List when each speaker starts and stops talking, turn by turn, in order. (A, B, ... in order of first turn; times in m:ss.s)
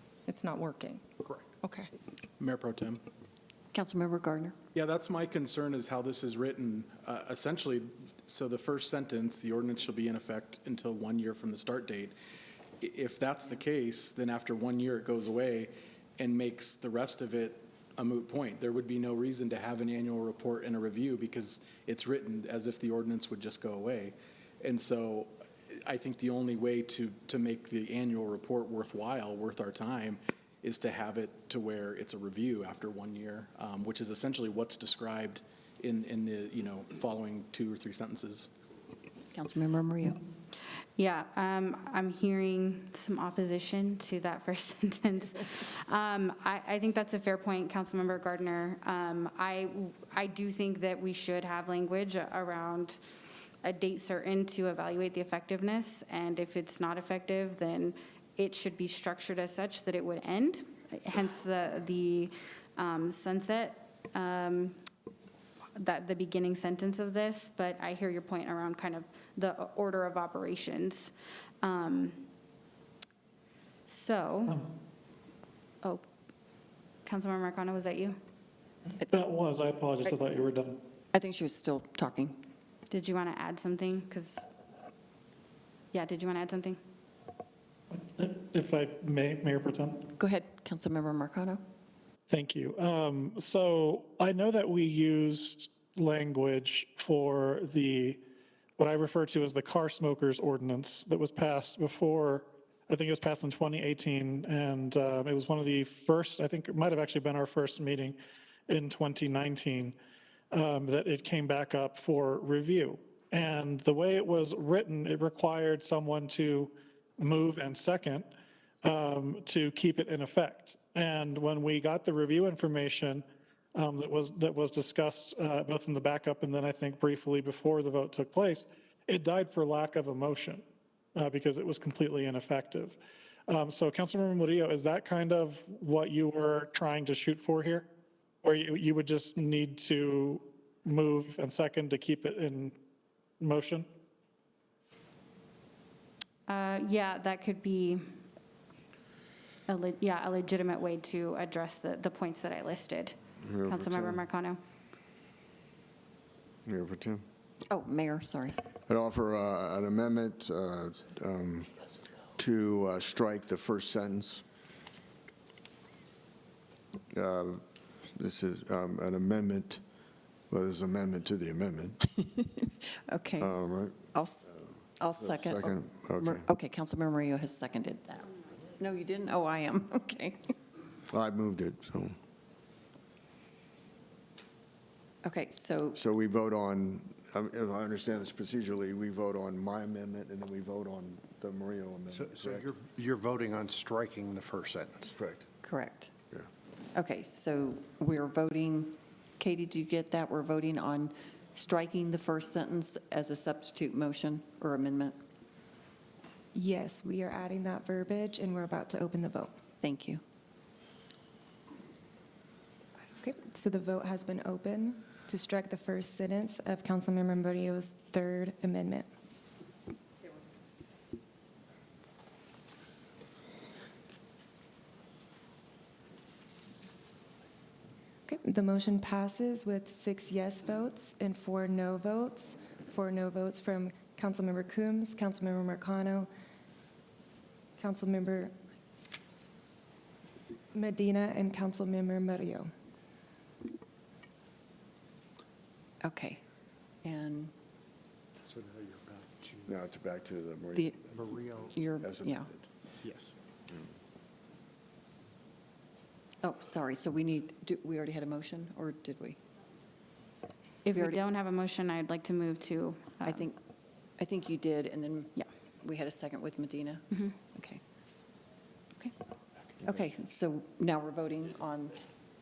0:00.3-0:01.0 A
0:02.4-0:03.0 B
0:03.7-0:04.6 C
0:04.8-0:12.2 B
0:12.8-0:25.3 B
0:25.8-0:38.5 B
0:39.3-0:40.2 C
0:41.0-0:53.0 D
0:53.6-1:04.8 D
1:05.8-1:11.1 D
1:11.6-1:12.3 D
1:13.9-1:14.6 D
1:17.1-1:18.2 D
1:19.1-1:20.8 E
1:21.1-1:22.5 C
1:22.9-1:24.4 D
1:25.9-1:26.8 D
1:27.9-1:30.1 E
1:30.1-1:31.6 C
1:32.3-1:38.2 E
1:38.8-1:48.2 E
1:48.7-1:50.0 E
1:50.5-1:58.3 E
1:58.8-2:10.6 E
2:11.2-2:17.9 E
2:18.4-2:22.8 E
2:23.4-2:23.9 E
2:26.5-2:28.0 D
2:29.7-2:34.6 D
2:33.4-2:34.2 F
2:36.7-2:37.2 F
2:37.7-2:38.6 C
2:38.9-2:41.7 F
2:42.4-2:44.4 F
2:47.1-2:47.6 F
2:48.2-2:49.8 F
2:50.5-2:52.0 F
2:52.2-2:53.5 C
2:53.4-2:56.5 F
2:54.1-3:00.4 C
3:01.1-3:02.2 F
3:05.2-3:06.0 C
3:05.9-3:12.7 F
3:12.1-3:15.1 G
3:15.2-3:15.5 F
3:15.6-3:16.1 C
3:17.0-3:25.2 C
3:26.6-3:29.5 A
3:29.8-3:30.2 C
3:33.2-3:39.1 A
3:48.3-3:56.3 A
3:57.8-3:58.5 A
4:00.7-4:02.7 A
4:06.0-4:06.4 C
4:07.0-4:07.5 C
4:08.5-4:09.7 G
4:09.7-4:11.2 F
4:11.1-4:11.7 G
4:11.7-4:12.5 C
4:12.0-4:12.6 F
4:13.0-4:13.3 G
4:16.4-4:19.4 C
4:20.8-4:23.5 D
4:20.9-4:21.2 C
4:23.2-4:23.5 C
4:24.2-4:27.8 C
4:29.8-4:32.0 C